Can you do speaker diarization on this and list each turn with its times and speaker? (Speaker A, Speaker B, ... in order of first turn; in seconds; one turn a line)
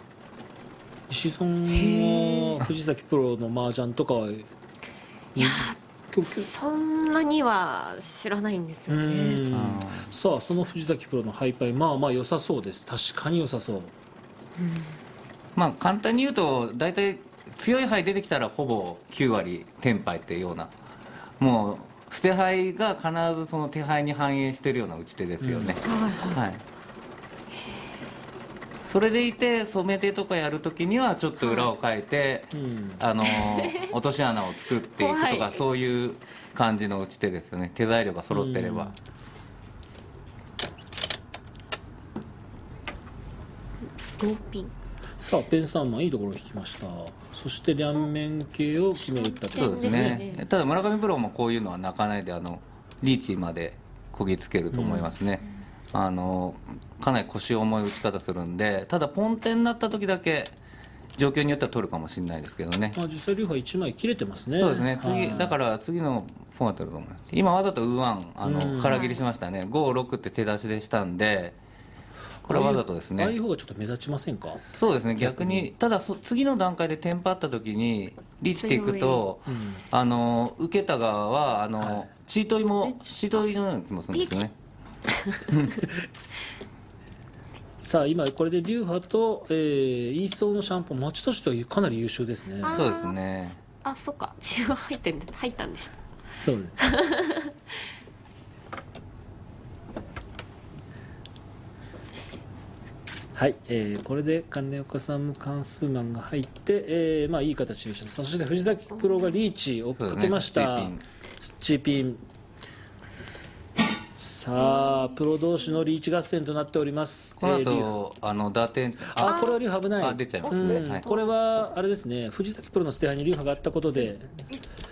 Speaker A: 1.1-4.5
Speaker B: 1.7-2.6
Speaker A: 5.3-6.5
Speaker B: 5.3-9.4
Speaker A: 8.9-13.9
Speaker C: 9.5-10.1
Speaker B: 14.6-14.9
Speaker C: 15.5-20.7
Speaker C: 21.4-26.6
Speaker A: 25.4-25.8
Speaker B: 25.8-26.4
Speaker C: 28.8-38.9
Speaker B: 31.4-31.7
Speaker A: 32.5-33.0
Speaker B: 33.3-33.9
Speaker B: 34.9-35.6
Speaker A: 38.3-38.9
Speaker B: 44.2-44.7
Speaker A: 45.2-50.2
Speaker B: 49.0-50.4
Speaker C: 49.5-60.5
Speaker A: 54.7-55.1
Speaker C: 61.2-63.0
Speaker A: 62.9-65.5
Speaker C: 64.5-71.6
Speaker B: 65.0-65.4
Speaker A: 68.4-69.0
Speaker B: 68.8-69.2
Speaker A: 72.4-74.6
Speaker C: 72.5-73.3
Speaker C: 74.7-84.5
Speaker A: 75.2-75.7
Speaker B: 78.5-79.2
Speaker A: 79.5-79.8
Speaker A: 81.8-82.1
Speaker B: 84.1-84.5
Speaker B: 85.2-85.8
Speaker A: 87.8-92.9
Speaker B: 92.6-93.2
Speaker C: 92.7-93.6
Speaker B: 93.7-96.0
Speaker A: 96.4-96.8
Speaker B: 96.8-97.7
Speaker A: 103.3-112.2
Speaker B: 108.9-109.4
Speaker C: 110.0-111.0
Speaker A: 114.2-117.9
Speaker B: 114.6-115.1
Speaker C: 117.4-121.0
Speaker A: 119.1-124.3
Speaker B: 119.2-119.6
Speaker B: 120.4-121.3